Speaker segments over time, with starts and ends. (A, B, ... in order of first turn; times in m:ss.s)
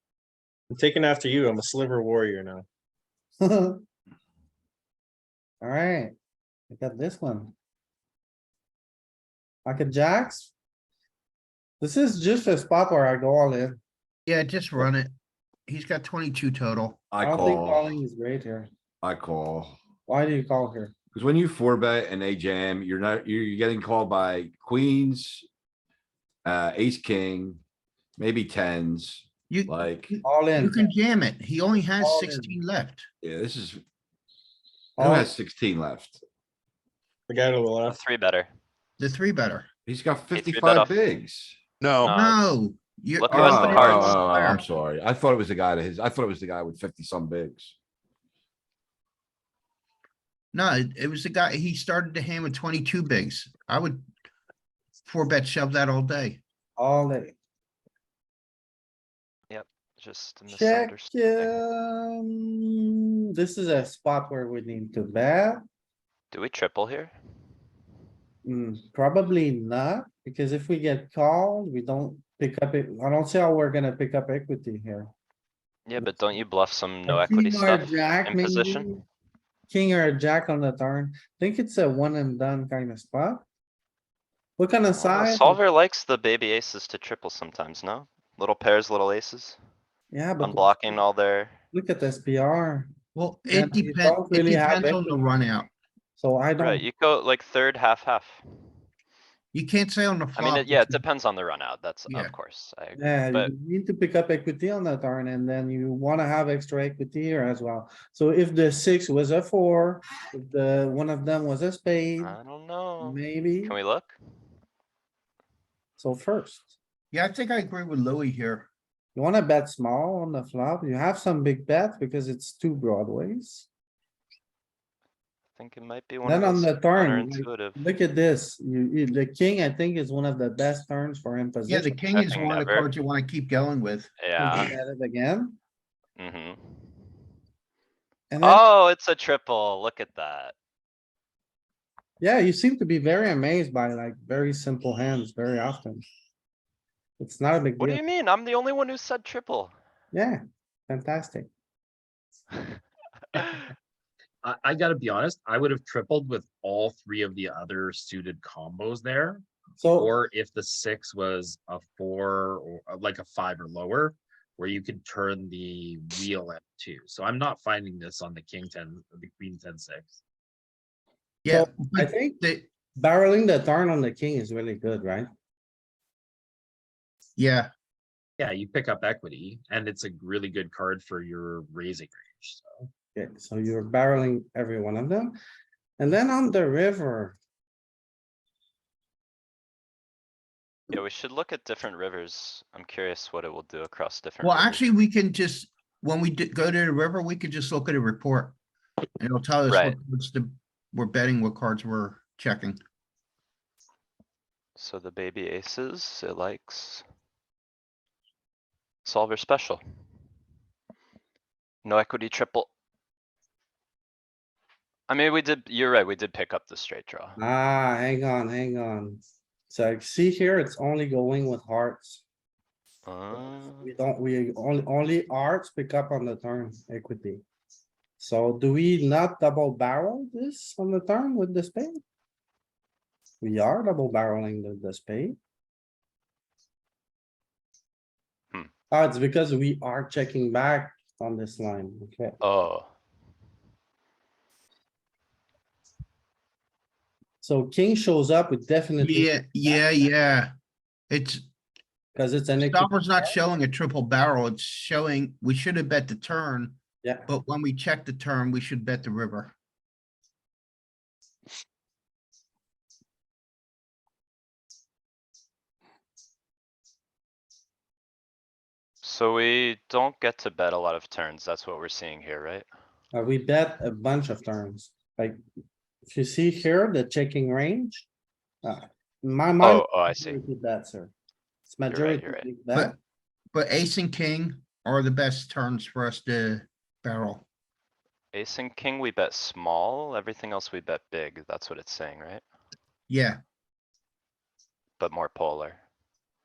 0:00.7-0:02.6 A
0:03.4-0:03.8 B
0:05.6-0:06.1 B
0:06.7-0:07.5 B
0:09.6-0:10.5 B
0:11.8-0:13.8 B
0:14.3-0:15.1 C
0:15.7-0:17.0 C
0:17.1-0:18.0 D
0:17.2-0:18.7 B
0:19.0-0:19.8 D
0:20.1-0:20.9 B
0:21.1-0:25.5 D
0:26.4-0:27.6 D
0:28.2-0:30.2 D
0:29.5-0:33.1 C
0:30.2-0:30.9 B
0:32.0-0:32.6 B
0:33.2-0:33.8 D
0:35.0-0:35.3 B
0:35.0-0:36.2 D
0:37.3-0:38.0 A
0:37.9-0:38.5 E
0:39.0-0:39.7 C
0:39.8-0:41.6 D
0:40.3-0:41.0 E
0:42.0-0:42.4 E
0:42.1-0:44.6 C
0:43.2-0:44.2 E
0:43.3-0:47.7 D
0:50.5-0:54.0 C
0:55.0-0:56.4 C
0:56.8-0:57.4 B
0:59.5-1:01.6 E
1:00.5-1:05.6 B
1:06.3-1:07.1 E
1:08.4-1:15.1 B
1:15.9-1:19.0 E
1:17.1-1:19.0 B
1:19.7-1:23.4 B
1:24.6-1:25.6 B
1:24.9-1:29.6 E
1:30.1-1:30.7 B
1:30.4-1:31.6 E
1:31.7-1:32.9 B
1:33.1-1:35.7 C
1:33.5-1:35.2 B
1:36.2-1:36.8 B
1:36.6-1:38.4 E
1:39.5-1:41.0 C
1:40.4-1:43.5 E
1:42.1-1:42.3 C
1:43.0-1:52.3 B
1:52.2-1:54.2 E
1:53.0-1:53.8 B
1:56.0-1:56.8 B
1:57.1-1:58.7 C
1:59.1-2:03.7 B
2:05.6-2:07.8 E
2:06.2-2:12.0 B
2:11.7-2:14.7 C
2:12.1-2:12.9 E
2:14.2-2:14.7 E
2:14.4-2:15.6 B
2:16.2-2:17.0 E
2:18.3-2:18.6 B
2:18.4-2:20.5 E
2:22.2-2:26.0 B
2:27.2-2:28.0 B
2:27.8-2:29.7 E
2:30.1-2:31.5 B
2:34.4-2:50.2 F
2:39.8-2:40.1 B
2:51.4-2:52.7 C
2:51.5-2:52.4 B
2:52.9-2:55.3 B
2:57.4-2:57.7 C
2:58.4-3:02.7 F
3:03.1-3:05.3 B
3:06.0-3:07.4 B
3:10.9-3:14.8 E
3:14.4-3:18.6 C
3:19.2-3:22.8 C
3:19.7-3:20.0 E
3:24.8-3:27.0 E
3:29.0-3:29.8 E
3:31.8-3:32.7 E
3:35.1-3:37.4 E
3:37.4-3:42.2 B
3:43.0-3:43.9 E
3:43.3-3:47.4 B
3:48.2-3:52.0 B
3:53.4-3:55.4 B
3:58.9-4:02.4 B
4:02.4-4:02.9 E
4:07.4-4:10.0 B
4:09.0-4:10.5 C
4:11.1-4:11.4 C
4:12.2-4:13.3 B
4:12.6-4:19.5 C
4:17.0-4:17.3 B
4:29.0-4:32.6 E
4:33.1-4:35.4 B
4:36.1-4:38.1 B
4:38.6-4:41.1 B
4:39.6-4:40.4 E
4:41.7-4:42.9 B
4:41.9-4:42.5 E
4:43.5-4:47.4 C
4:48.3-4:52.4 E
4:53.1-4:53.4 C
4:55.0-4:55.8 E